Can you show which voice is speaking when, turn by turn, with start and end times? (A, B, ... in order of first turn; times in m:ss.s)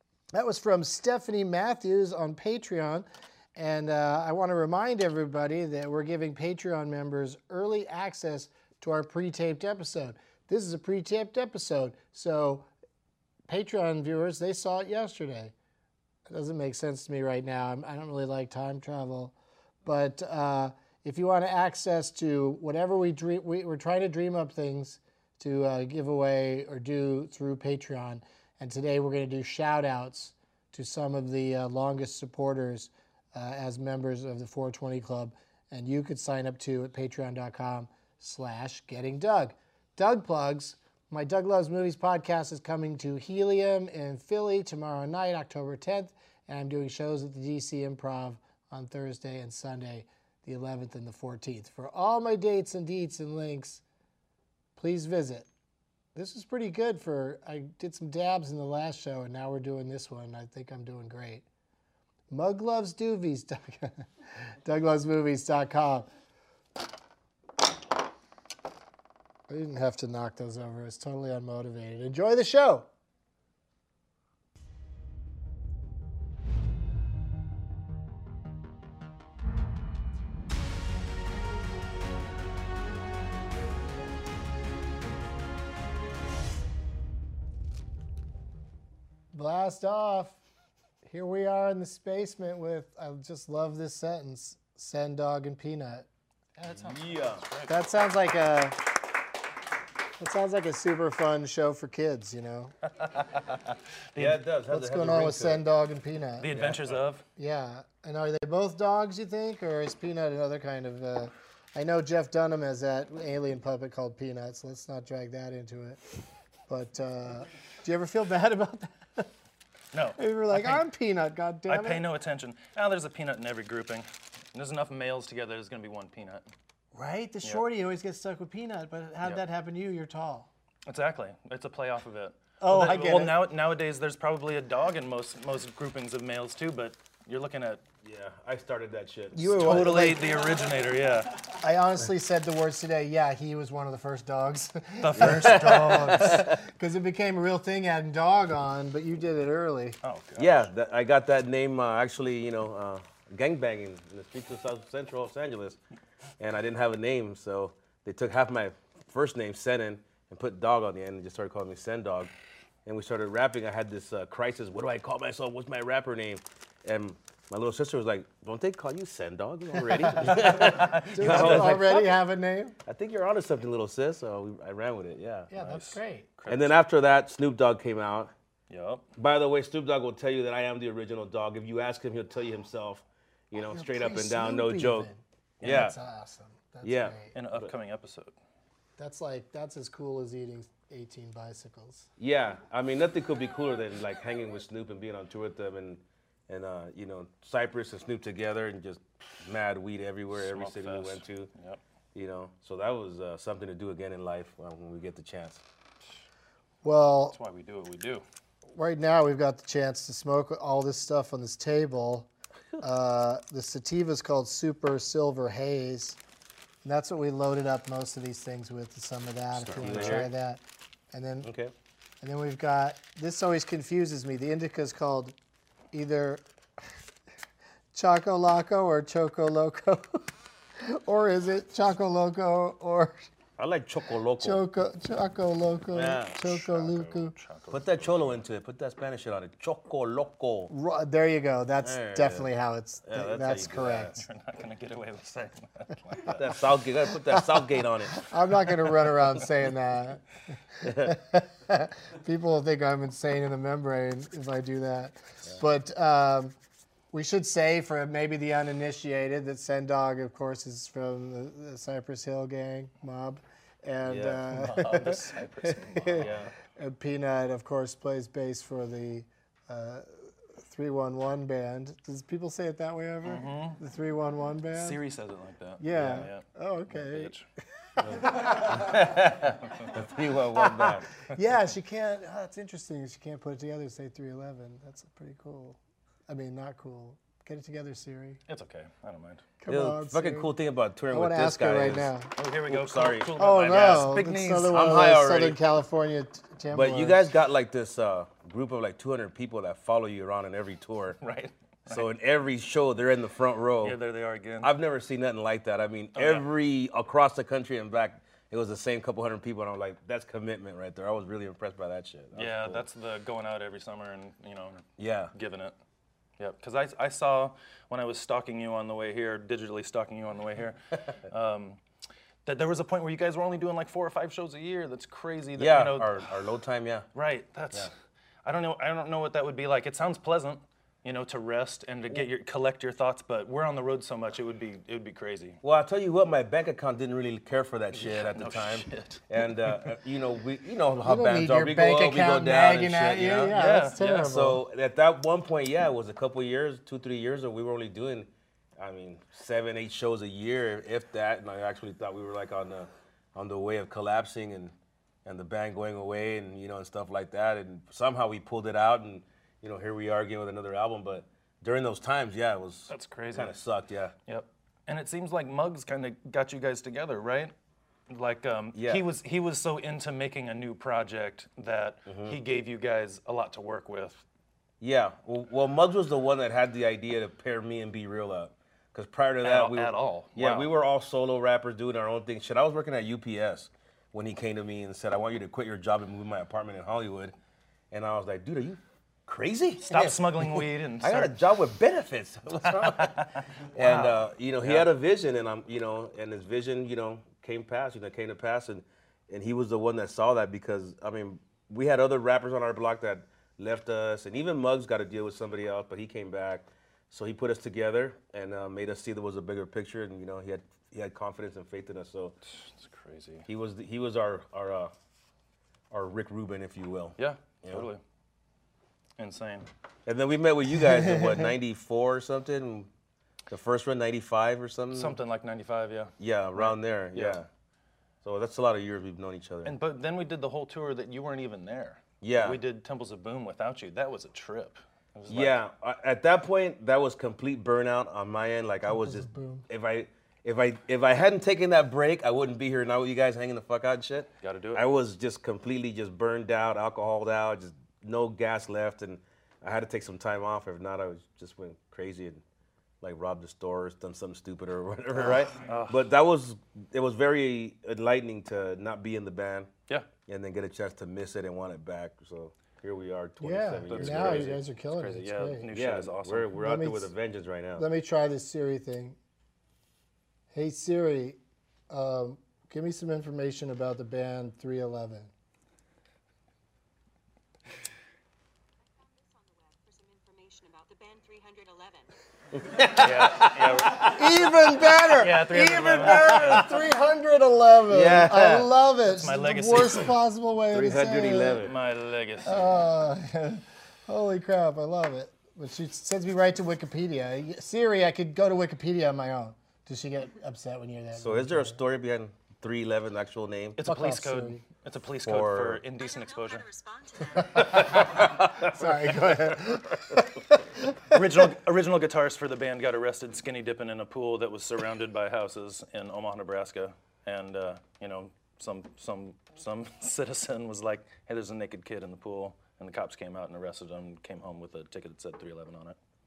0:00.3-0:12.7 A
0:13.5-0:15.5 A
0:16.3-0:19.3 A
0:19.8-0:53.8 A
0:54.8-0:55.5 A
0:56.1-1:01.4 A
1:02.3-1:06.1 A
1:09.5-1:12.9 A
1:29.3-1:30.4 A
1:31.0-1:36.1 A
1:36.6-1:37.8 B
1:36.8-1:37.4 C
1:37.7-1:38.9 A
1:40.2-1:42.7 A
1:44.1-1:45.6 C
1:44.2-1:46.8 A
1:46.4-1:47.2 B
1:47.4-1:56.0 A
1:56.7-1:59.3 A
1:59.9-2:00.8 B
2:00.2-2:02.0 A
2:01.7-2:06.4 B
2:06.9-2:10.5 A
2:10.8-2:17.8 B
2:12.6-2:13.4 A
2:18.0-2:20.1 C
2:19.3-2:20.4 A
2:19.6-2:21.4 B
2:21.6-2:30.0 A
2:25.0-2:26.3 B
2:25.2-2:26.6 C
2:30.0-2:30.7 B
2:30.4-2:35.8 C
2:36.4-2:42.3 C
2:42.8-2:52.1 C
2:50.2-2:52.8 A
2:50.3-2:51.8 B
2:52.8-2:55.5 C
2:55.5-2:56.3 A
2:55.6-2:56.7 B
2:56.5-2:58.3 C
2:58.7-2:59.0 B
2:59.2-3:05.1 C
3:03.6-3:07.3 A
3:05.6-3:05.9 B
3:05.6-3:06.0 C
3:06.8-3:07.7 C
3:07.3-3:08.3 B
3:09.0-3:12.1 A
3:12.2-3:21.5 C
3:20.3-3:21.8 B
3:22.1-3:25.6 C
3:26.8-3:27.4 A
3:27.3-3:28.2 B
3:28.7-3:32.3 A
3:32.8-3:36.2 A
3:36.8-3:41.5 A
3:39.6-3:40.2 B
3:39.6-3:40.3 C
3:41.4-3:41.7 C
3:42.2-3:45.3 A
3:45.9-3:46.4 A
3:47.9-3:50.3 A
3:50.8-3:53.2 A
3:53.6-3:54.6 C
3:54.4-3:57.3 A
3:55.9-3:56.3 C
3:56.3-3:58.4 B
3:57.7-4:00.7 C
4:00.7-4:04.2 A
4:01.8-4:02.5 C
4:03.0-4:04.1 C
4:03.8-4:06.4 B
4:06.3-4:08.2 C
4:08.1-4:10.2 A
4:10.7-4:16.5 A
4:10.8-4:11.2 C
4:17.1-4:35.0 A
4:24.0-4:24.4 C
4:24.5-4:26.4 B
4:26.2-4:26.5 C
4:33.2-4:33.8 B
4:34.7-4:37.4 B
4:35.8-4:37.3 A
4:35.9-4:36.3 C
4:38.0-4:39.0 A
4:38.0-4:41.1 C
4:40.6-4:48.4 A
4:48.5-4:49.4 B
4:49.6-4:50.5 A
4:49.7-4:52.1 C
4:51.1-4:52.3 A
4:52.4-4:54.8 B
4:52.7-4:53.3 C
4:53.4-4:57.3 A
4:54.7-4:55.6 C
4:56.7-5:01.2 C
5:01.2-5:02.1 B
5:01.9-5:04.0 C
5:03.8-5:04.7 B
5:04.6-5:12.8 C
5:06.1-5:06.5 B
5:12.3-5:15.7 B
5:15.0-5:15.3 C
5:16.4-5:21.8 B
5:22.4-5:26.2 B
5:25.6-5:27.0 C
5:27.1-5:27.9 B
5:28.4-5:35.6 B
5:35.6-5:43.6 C
5:38.0-5:39.8 B
5:41.0-5:44.6 A
5:43.5-5:44.4 B
5:44.2-5:54.7 C
5:55.2-6:04.1 C
6:02.9-6:03.5 B
6:04.3-6:07.5 B
6:08.1-6:14.2 B
6:08.7-6:09.0 C
6:12.1-6:12.4 C
6:14.8-6:27.3 C
6:19.4-6:20.7 B
6:27.9-6:52.3 C
6:29.8-6:31.3 B
6:32.7-6:34.9 B
6:52.5-6:53.5 B
6:53.4-6:54.9 C
6:55.9-6:57.9 C
6:57.2-6:58.0 B
6:59.2-6:59.7 B
7:00.0-7:02.9 C
7:03.5-7:05.2 C
7:04.9-7:07.4 B
7:06.2-7:07.5 C
7:08.2-7:09.8 C
7:09.6-7:15.6 B
7:12.2-7:12.6 C
7:15.3-7:32.4 C
7:18.9-7:19.6 A
7:24.4-7:24.8 B
7:33.0-7:39.7 C
7:35.6-7:36.0 B
7:40.3-7:44.6 C
7:43.4-7:45.7 A
7:43.9-7:46.5 B
7:45.7-7:47.8 C
7:46.6-7:47.1 A
7:47.8-7:49.2 A
7:50.5-7:51.4 A
7:51.9-7:55.3 A
7:59.0-8:02.7 D
8:02.6-8:05.2 C
8:03.0-8:04.4 B
8:04.0-8:11.7 A
8:05.2-8:06.7 B
8:05.9-8:06.6 C
8:07.9-8:08.7 C
8:09.1-8:10.1 B
8:10.7-8:11.7 C
8:11.6-8:12.8 B
8:12.4-8:21.8 A
8:21.2-8:23.8 C
8:23.8-8:26.6 B
8:23.8-8:24.6 A
8:25.2-8:25.8 C
8:26.0-8:28.2 D
8:27.6-8:28.1 B
8:27.7-8:31.1 A
8:31.1-8:46.0 B